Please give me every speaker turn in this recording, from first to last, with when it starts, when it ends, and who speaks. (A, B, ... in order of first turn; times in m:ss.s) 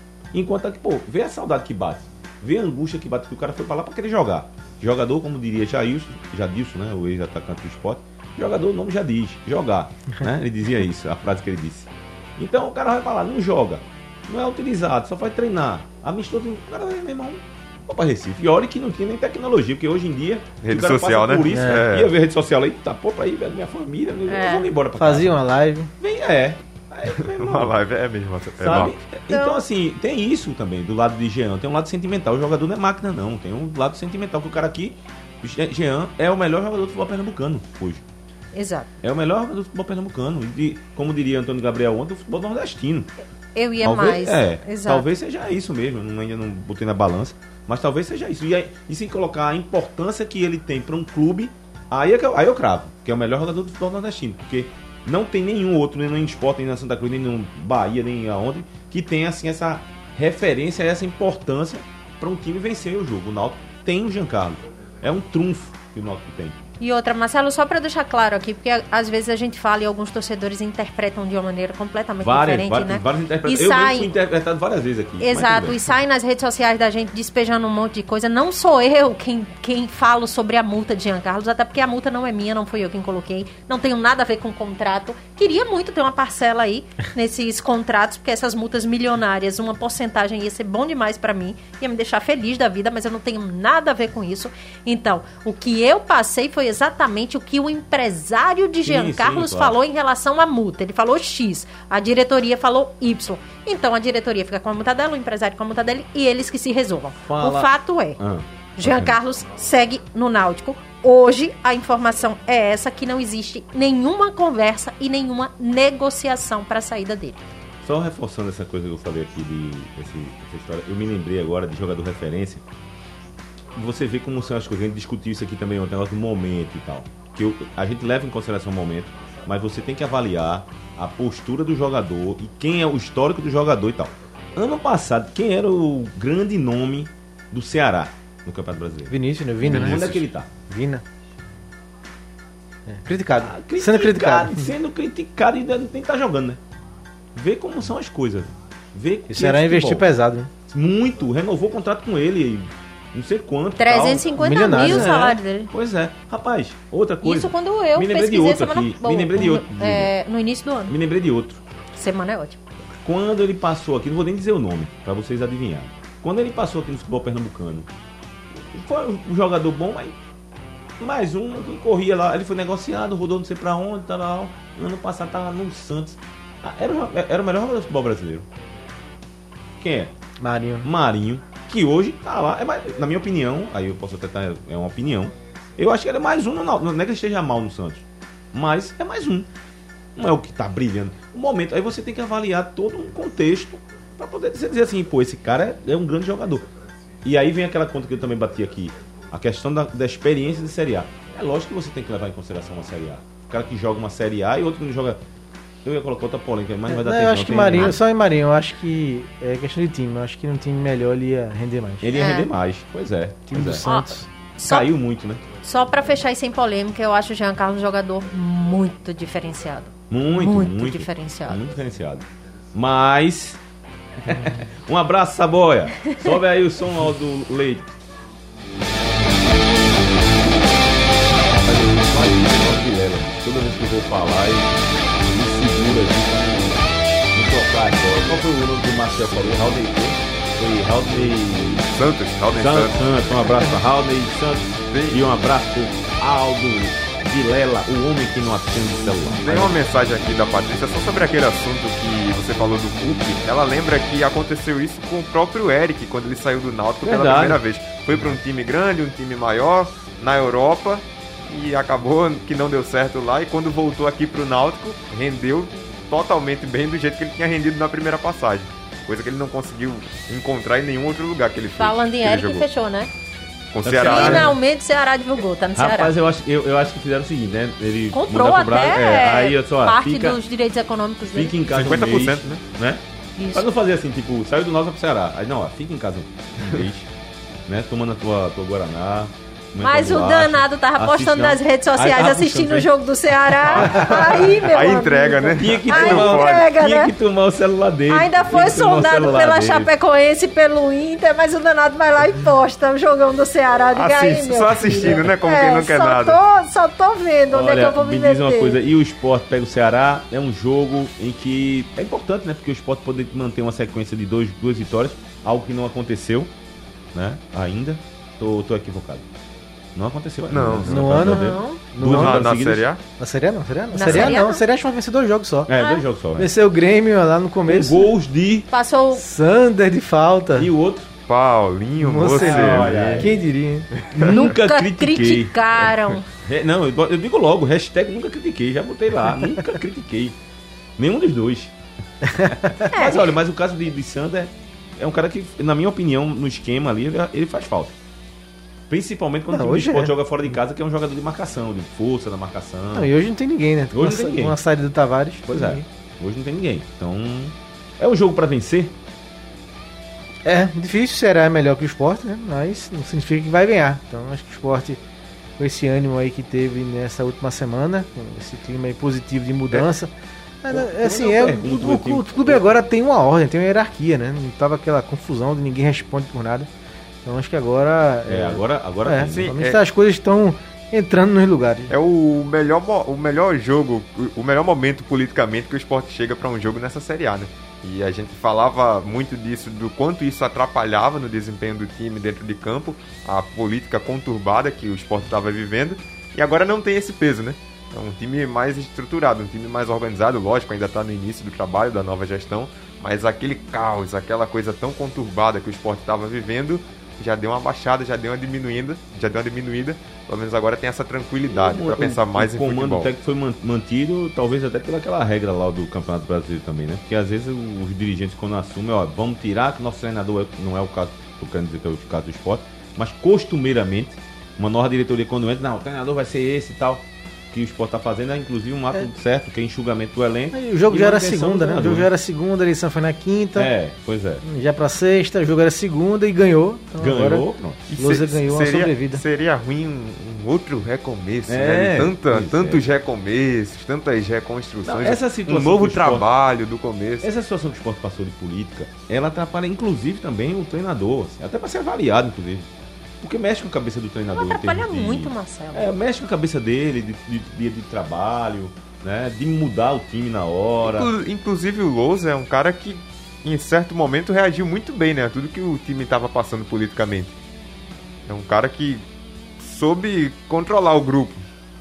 0:00.3-0:25.3 A
0:20.6-0:22.1 B
0:21.5-0:21.8 C
0:24.3-0:24.7 D
0:25.0-0:25.9 C
0:26.0-0:27.7 A
0:27.1-0:29.0 B
0:28.6-0:38.0 A
0:29.3-0:29.6 D
0:38.5-0:38.9 D
0:39.0-0:43.1 A
0:43.6-0:45.1 D
0:43.8-1:06.6 A
1:06.8-1:14.1 D
1:12.2-1:15.9 A
1:15.2-1:48.2 D
1:38.8-1:39.8 A
1:47.2-1:49.2 A
1:48.8-1:57.4 D
1:57.8-2:02.6 A
2:03.7-2:20.5 A
2:19.1-2:21.0 C
2:22.9-2:24.7 C
2:23.4-2:26.6 A
2:27.4-2:30.1 A
2:29.3-2:30.5 C
2:30.7-2:40.1 A
2:33.8-2:35.7 D
2:34.4-2:35.1 C
2:37.2-2:41.0 D
2:40.9-2:41.6 A
2:42.0-2:42.6 D
2:43.0-2:47.9 A
2:48.5-2:50.2 A
2:51.0-2:58.5 A
2:59.8-3:00.1 A
3:00.4-3:00.9 C
3:00.8-3:09.5 A
3:10.2-3:16.7 A
3:17.2-3:25.2 A
3:25.8-3:28.0 A
3:26.9-3:32.2 C
3:32.0-3:33.9 A
3:32.2-3:32.5 D
3:33.5-3:34.3 C
3:33.8-3:34.9 D
3:34.6-3:35.5 A
3:35.6-3:41.6 D
3:40.1-3:43.6 A
3:44.2-3:48.0 A
3:51.5-4:01.9 A
4:01.9-4:03.6 B
4:02.6-4:09.8 A
4:04.9-4:05.3 B
4:09.4-4:32.6 B
4:17.0-4:17.6 A
4:31.8-4:33.1 D
4:33.7-4:34.6 B
4:33.8-4:34.6 A
4:33.9-4:36.1 D
4:35.8-4:40.4 A
4:38.1-4:41.6 D
4:41.3-4:47.1 A
4:41.7-4:42.6 B
4:43.4-4:43.7 D
4:47.7-4:52.9 A
4:49.8-4:57.1 D
4:53.5-4:54.9 A
4:53.8-4:56.6 B
4:55.6-4:59.9 A
4:58.1-5:08.8 D
5:03.9-5:06.4 B
5:05.0-5:05.2 A
5:07.5-5:16.5 A
5:17.1-5:19.2 A
5:20.0-5:22.9 A
5:20.5-5:21.2 B
5:20.8-5:22.5 C
5:21.3-5:21.8 D
5:22.0-5:23.0 B
5:23.2-5:25.7 C
5:23.9-5:24.6 D
5:24.0-5:24.4 A
5:25.7-5:26.5 A
5:25.8-5:26.1 D
5:26.4-5:28.1 C
5:27.7-5:28.7 A
5:28.7-5:29.2 D
5:29.1-5:30.7 C
5:30.6-5:31.1 A
5:31.3-5:33.3 B
5:32.0-5:33.9 C
5:32.3-5:33.4 A
5:34.1-5:34.4 B
5:34.1-5:40.4 A
5:34.3-5:36.3 D
5:41.0-5:41.7 A
5:42.2-5:42.9 C
5:42.4-5:48.0 A
5:42.9-5:43.3 D
5:48.9-5:53.1 A
5:49.5-5:50.1 C
5:53.0-5:55.8 C
5:53.9-5:54.6 A
5:55.5-5:59.0 A
6:00.4-6:05.0 C
6:05.6-6:10.1 C
6:10.6-6:16.7 C
6:10.7-6:12.8 A
6:17.2-6:21.9 C
6:18.2-6:19.5 A
6:19.2-6:19.8 B
6:21.9-6:53.1 B
6:51.4-7:12.1 A
7:10.5-7:13.7 C
7:13.6-7:14.4 A
7:14.4-7:19.2 C
7:17.0-7:17.8 A
7:17.9-7:27.3 B
7:21.5-7:22.8 A
7:24.8-7:26.3 A
7:27.2-7:32.7 A
7:33.2-7:41.1 A
7:34.3-7:35.9 D
7:40.8-7:47.4 B
7:48.3-7:49.0 B
7:49.6-7:51.4 B